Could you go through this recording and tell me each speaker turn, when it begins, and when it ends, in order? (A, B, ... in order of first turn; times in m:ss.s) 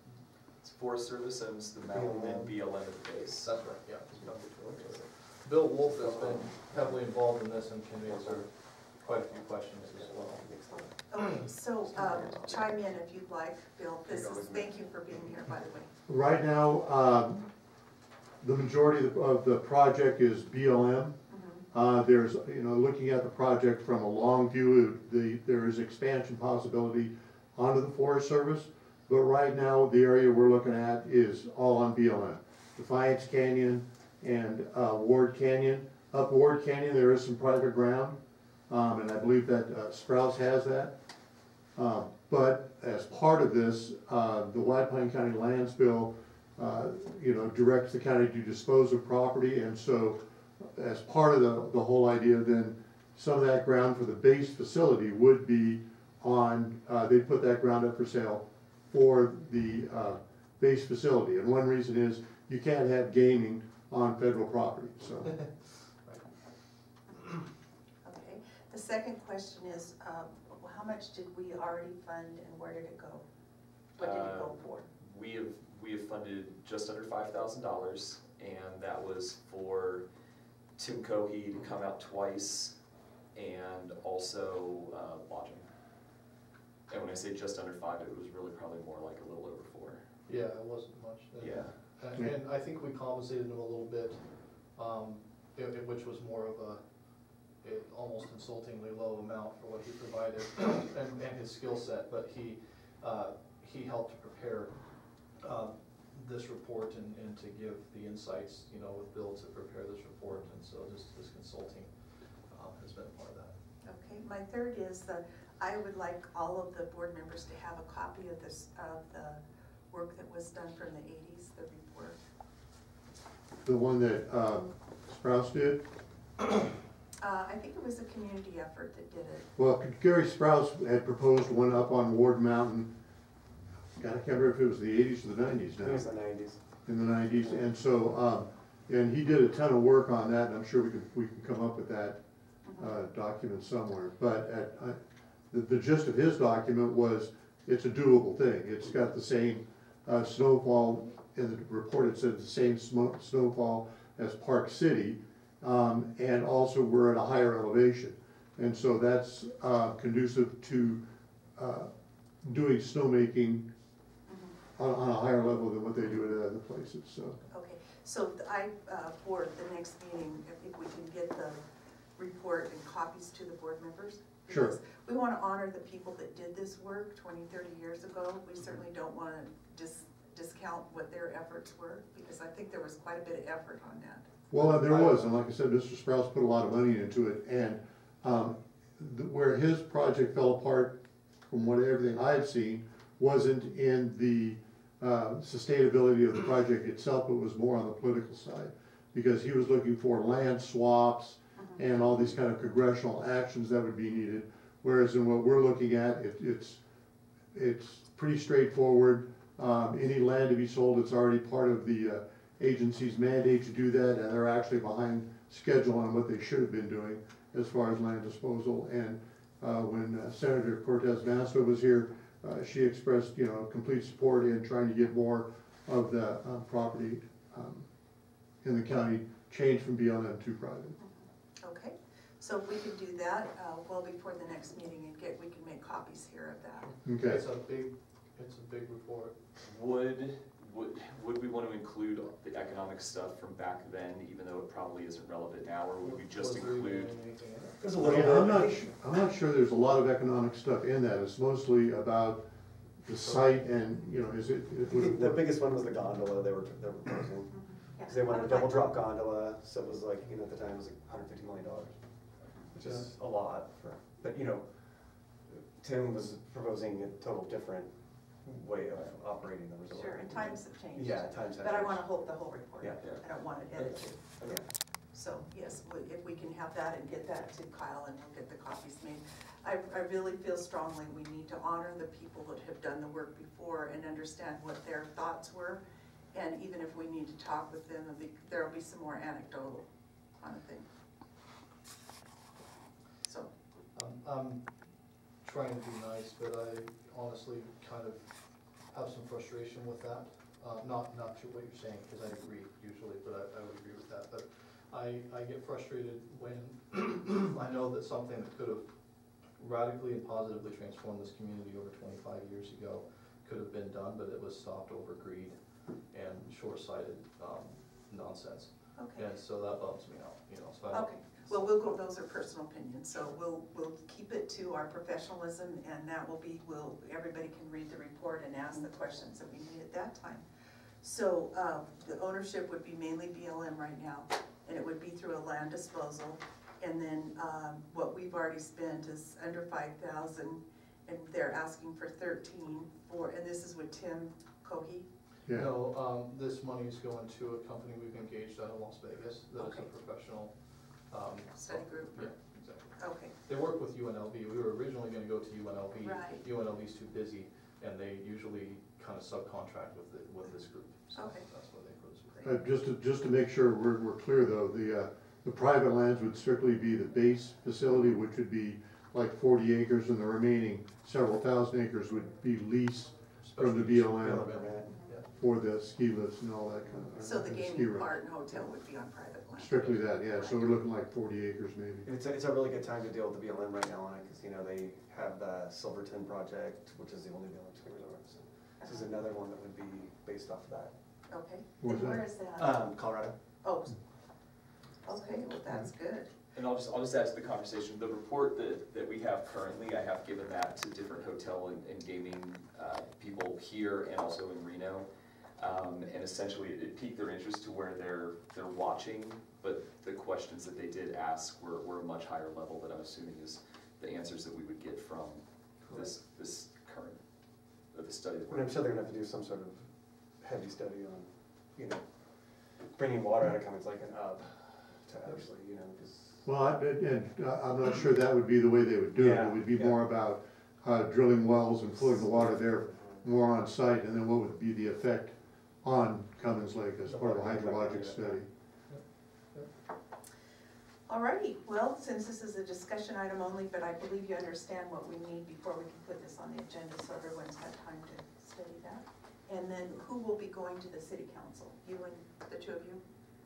0:00.6-0:03.5 A
0:01.9-0:02.6 B
0:03.4-0:04.9 C
0:04.2-0:05.0 A
0:04.2-0:04.9 B
0:05.4-0:10.5 C
0:05.9-0:06.9 B
0:08.0-0:08.4 B
0:09.9-0:11.0 B
0:11.1-0:15.9 D
0:11.9-0:12.7 B
0:14.1-0:14.9 B
0:16.1-0:17.5 E
0:18.4-0:21.2 E
0:21.3-0:21.6 D
0:21.7-0:40.9 E
0:41.8-1:05.4 E
1:05.2-1:05.5 C
1:08.0-1:13.2 D
1:14.0-1:14.9 D
1:14.0-1:20.0 A
1:20.8-1:22.8 A
1:23.4-1:25.7 A
1:26.9-1:30.0 A
1:30.3-1:34.2 C
1:31.4-1:31.8 A
1:34.8-1:36.8 C
1:37.6-1:44.7 C
1:45.4-1:51.9 C
1:52.5-1:53.5 C
1:53.8-2:02.2 D
2:03.6-2:05.9 E
2:07.2-2:09.5 D
2:09.6-2:12.9 E
2:14.0-2:16.1 E
2:15.8-2:16.6 B
2:16.8-2:22.2 E
2:22.6-2:22.9 D
2:22.8-2:25.0 E
2:25.5-2:41.0 E
2:41.6-2:43.7 E
2:44.3-2:44.6 D
2:44.8-2:47.4 E
2:47.5-2:51.6 D
2:52.2-3:05.2 D
2:54.5-2:54.7 E
3:04.5-3:26.8 E
3:21.6-3:21.8 D
3:27.5-3:47.9 E
3:48.6-3:51.0 E
3:51.0-3:56.9 D
3:56.9-3:59.4 C
3:57.0-3:57.4 E
3:59.6-4:07.1 A
4:06.0-4:08.1 C
4:07.8-4:08.9 B
4:08.0-4:12.4 E
4:13.0-4:15.4 E
4:14.9-4:22.0 B
4:17.5-4:18.9 D
4:22.7-4:32.0 B
4:29.9-4:34.5 D
4:33.8-4:34.1 A
4:34.4-4:34.7 B
4:35.1-4:45.8 D
4:46.3-4:50.9 D
4:53.2-4:53.5 D
4:53.9-4:54.8 C
4:55.4-4:58.4 C
4:58.9-5:08.9 C
5:09.6-5:15.6 C
5:16.1-5:21.9 C
5:19.0-5:19.3 D
5:20.9-5:30.4 D
5:31.0-5:45.1 D
5:45.5-5:45.7 E
5:45.5-5:50.5 C
5:49.6-5:49.9 D
5:51.1-6:02.6 C
5:51.6-5:53.3 D
5:56.0-5:56.4 D
6:01.1-6:01.5 D
6:02.4-6:14.7 E
6:13.4-6:15.3 C
6:14.1-6:15.0 B
6:15.4-6:18.2 E
6:17.2-6:20.7 D
6:19.6-6:22.1 E
6:22.0-6:30.9 B
6:31.3-6:32.9 D
6:31.8-6:32.2 E
6:32.6-6:33.4 B
6:33.6-6:34.0 D
6:35.0-6:36.3 D
6:36.5-6:45.1 A
6:45.6-6:57.2 A
6:55.9-6:56.1 B
6:57.9-6:58.7 A
6:58.5-7:06.5 B
7:06.4-7:18.5 E
7:09.2-7:10.0 B
7:17.1-7:18.4 B
7:21.1-7:33.0 D